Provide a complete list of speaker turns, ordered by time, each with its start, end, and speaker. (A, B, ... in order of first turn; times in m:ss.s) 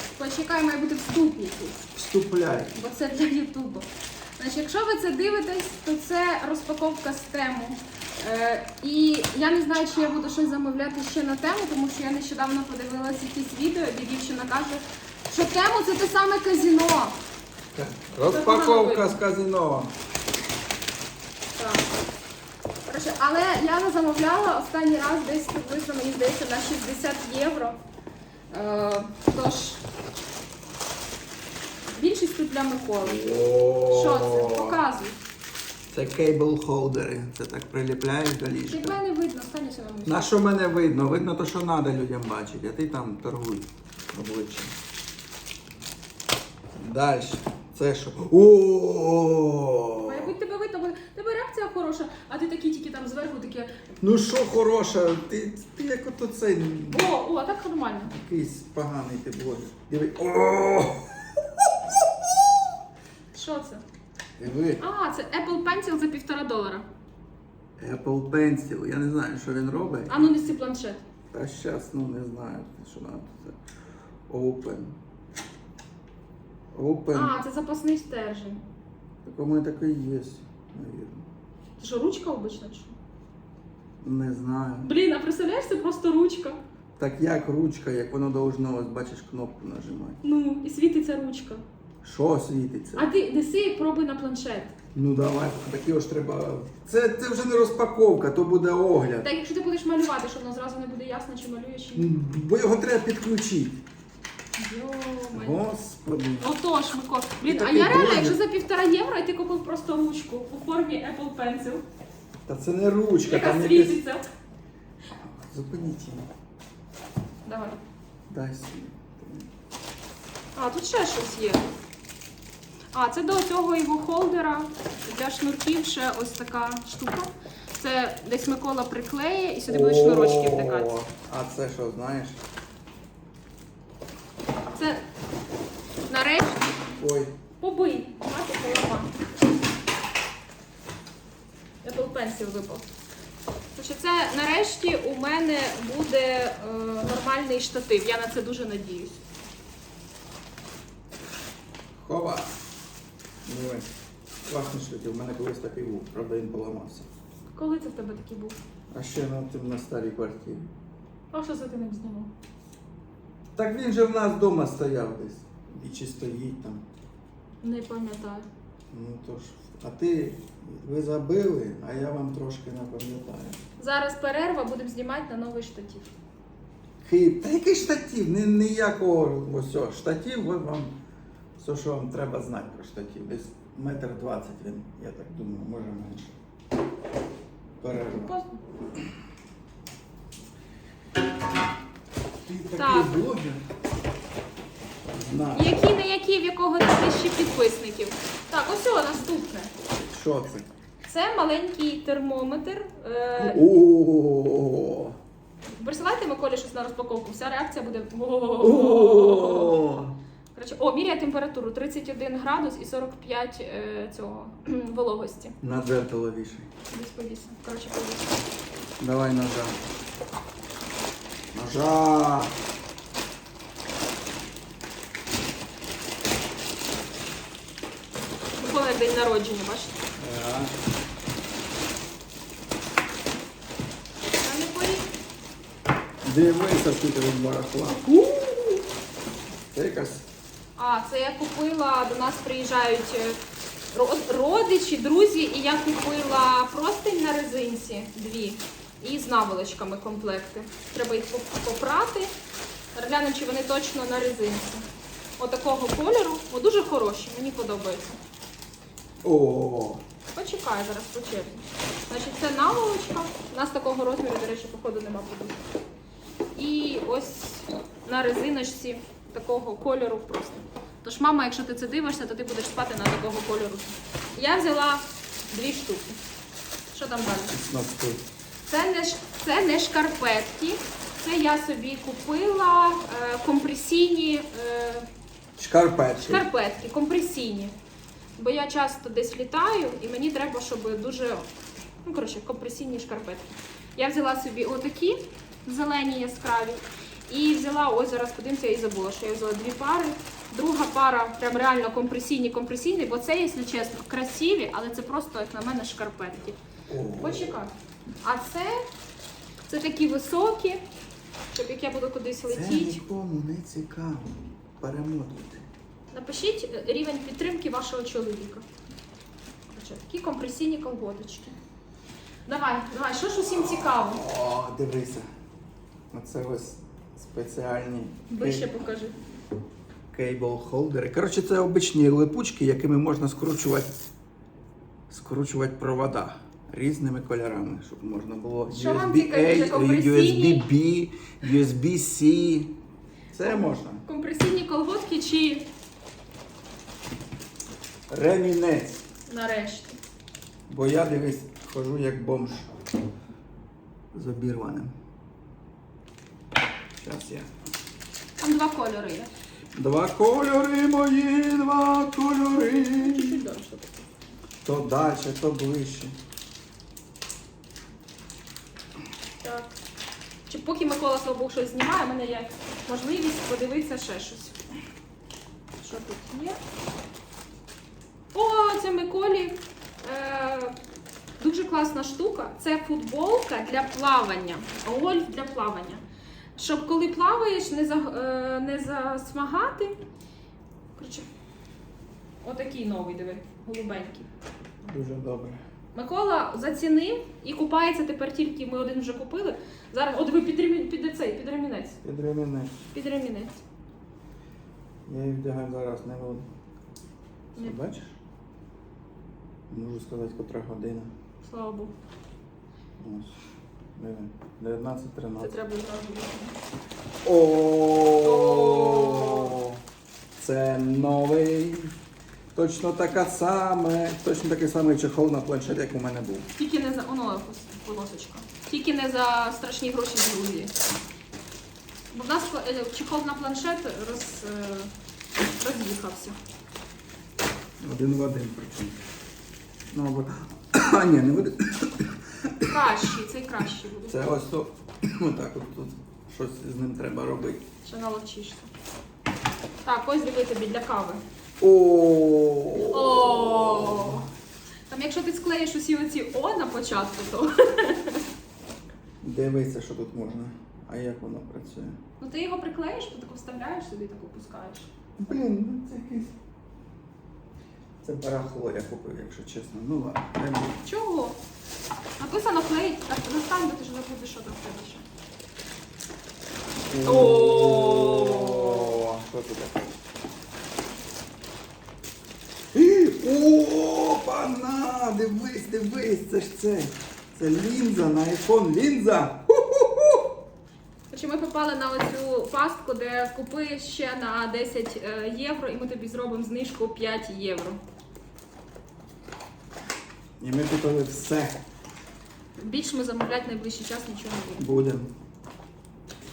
0:00.2-0:01.9 A
0:01.9-0:02.8 B
0:02.8-0:17.2 A
0:17.7-0:19.9 B
0:18.3-0:19.2 A
0:21.6-0:21.9 A
0:22.9-0:27.8 A
0:28.5-0:29.8 A
0:31.9-0:35.2 A
0:33.0-0:34.8 B
0:35.9-0:39.0 B
0:38.7-0:40.3 A
0:40.1-0:44.8 B
0:46.8-0:50.3 B
0:50.0-0:53.7 A
0:54.0-0:57.1 B
0:56.9-0:58.1 A
0:58.1-1:01.7 B
1:03.3-1:03.8 A
1:04.4-1:04.8 B
1:04.8-1:06.9 A
1:07.8-1:10.5 B
1:10.1-1:11.0 A
1:11.3-1:13.6 B
1:14.3-1:15.0 B
1:16.7-1:17.4 B
1:17.1-1:18.6 A
1:19.2-1:21.3 B
1:21.8-1:22.9 A
1:24.0-1:24.9 B
1:24.8-1:26.6 A
1:27.0-1:30.2 B
1:30.2-1:31.6 A
1:32.0-1:33.1 B
1:33.0-1:34.8 A
1:34.9-1:39.3 B
1:39.2-1:42.1 A
1:42.0-1:43.8 B
1:44.6-1:45.6 A
1:45.3-1:46.5 B
1:46.4-1:51.8 A
1:47.4-1:48.4 B
1:52.5-1:54.0 B
1:53.2-1:54.2 A
1:55.2-1:56.3 B
1:57.4-1:57.8 A
1:58.3-1:59.5 B
2:00.6-2:01.7 A
2:02.9-2:11.0 A
2:09.7-2:12.4 B
2:14.7-2:15.0 A
2:16.1-2:17.0 A
2:17.0-2:17.3 B
2:17.6-2:19.1 A
2:21.8-2:22.9 A
2:23.8-2:29.2 A
2:32.0-2:32.5 B
2:33.5-2:33.9 B
2:34.5-2:37.1 B
2:37.5-2:38.6 A
2:38.9-2:40.7 B
2:41.3-2:42.3 A
2:43.6-2:46.8 B
2:47.6-2:48.5 A
2:48.9-2:53.6 B
2:53.8-2:56.1 A
2:57.0-3:00.9 B
3:01.6-3:06.4 B
3:07.8-3:08.4 B
3:08.1-3:08.6 A
3:12.4-3:13.6 B
3:12.7-3:13.2 A
3:15.1-3:15.7 B
3:15.5-3:19.7 A
3:19.9-3:20.7 B
3:21.0-3:23.6 A
3:23.4-3:25.2 B
3:25.8-3:29.8 A
3:28.6-3:30.2 B
3:30.5-3:35.6 A
3:35.6-3:36.7 B
3:36.9-3:38.4 A
3:39.0-3:39.8 B
3:41.5-3:42.5 B
3:48.6-3:50.0 A
3:50.2-3:50.7 B
3:54.4-3:55.1 A
3:56.2-3:58.8 B
3:59.7-4:00.2 B
4:00.8-4:03.4 A
4:03.9-4:12.3 A
4:13.0-4:14.9 A
4:15.4-4:18.2 A
4:19.2-4:20.0 B
4:20.4-4:25.7 A
4:26.6-4:36.2 A
4:36.9-4:37.5 A
4:37.5-4:38.2 B
4:38.7-4:45.1 A
4:45.6-4:46.5 B
4:46.2-4:47.8 A
4:48.4-4:51.5 A
4:52.0-5:06.6 A
5:06.9-5:07.6 B
5:07.2-5:07.7 A
5:08.2-5:08.8 A
5:09.6-5:10.8 A
5:11.5-5:13.0 A
5:12.5-5:15.7 B
5:16.1-5:18.6 A
5:19.7-5:21.6 A
5:22.5-5:24.2 A
5:23.7-5:25.3 B
5:26.1-5:28.7 B
5:28.3-5:29.2 A
5:30.1-5:34.0 B
5:35.1-5:42.7 B
5:38.7-5:40.7 A
5:43.3-5:44.0 B
5:44.0-5:45.7 A
5:48.1-5:49.0 B
5:49.3-5:50.0 A
5:50.7-5:52.7 B
5:54.1-5:54.9 B
5:57.0-5:57.5 B
5:58.4-5:59.3 A
5:59.7-6:03.4 B
6:03.0-6:04.1 A
6:04.6-6:06.2 B
6:09.4-6:09.7 A
6:10.5-6:14.6 A
6:15.8-6:16.6 A
6:18.3-6:20.8 A
6:21.4-6:26.0 A
6:26.6-6:30.0 A
6:31.0-6:31.3 A
6:32.4-6:34.3 A
6:34.8-6:35.6 B
6:35.9-6:42.0 A
6:42.0-6:42.8 B
6:42.9-6:43.6 A
6:45.1-6:46.4 B
6:47.6-6:48.2 B
6:49.7-6:51.1 B
6:51.4-6:51.9 A
6:53.0-6:53.3 B
6:54.0-6:55.6 B
6:55.4-6:56.6 A
6:57.2-6:59.8 B
6:58.2-6:59.6 A
7:00.4-7:01.9 B
7:02.5-7:06.5 B
7:06.6-7:10.7 A
7:12.1-7:14.9 A
7:15.6-7:16.4 A
7:17.8-7:19.0 B
7:19.9-7:23.1 B
7:22.7-7:24.2 A
7:24.0-7:27.6 B
7:27.8-7:28.7 A
7:29.8-7:31.2 A
7:31.6-7:34.2 B
7:32.9-7:34.3 A
7:34.9-7:38.2 A
7:39.2-7:42.0 B
7:42.2-7:44.9 A
7:45.2-7:46.3 B
7:48.0-7:50.8 B
7:50.8-7:51.4 A
7:52.2-7:55.0 A
7:56.9-8:00.0 B
7:57.0-7:59.0 A
8:02.7-8:10.3 B
8:11.1-8:17.8 A
8:20.4-8:21.6 B
8:22.6-8:24.7 A
8:24.6-8:25.1 B